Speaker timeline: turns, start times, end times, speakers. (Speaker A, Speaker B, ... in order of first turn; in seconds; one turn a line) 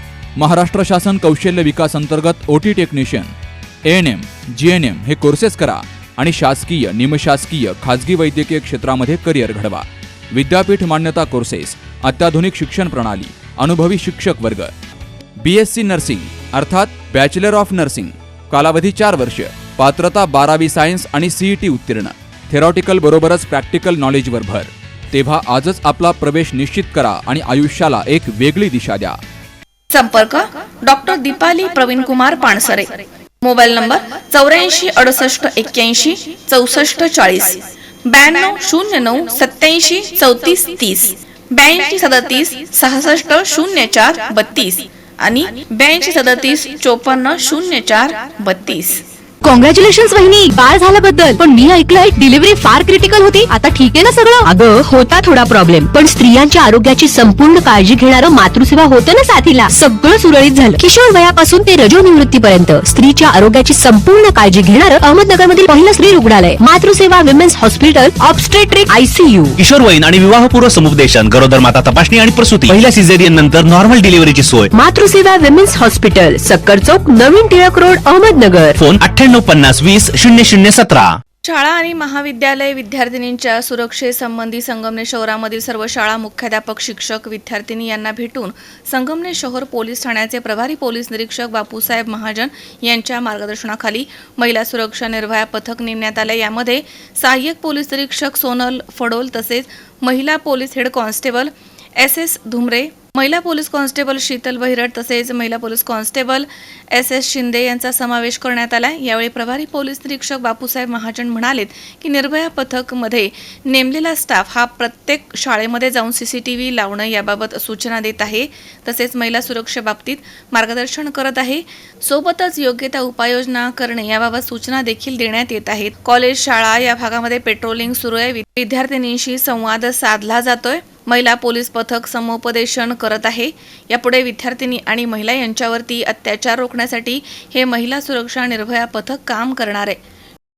Speaker A: 0.4-3.3
Speaker A: 3.9-14.7
Speaker A: 15.4-29.2
Speaker B: 29.9-49.0
Speaker C: 49.4-69.6
Speaker D: 69.6-74.6
Speaker C: 74.7-78.8
Speaker D: 78.8-81.1
Speaker B: 81.5-140.0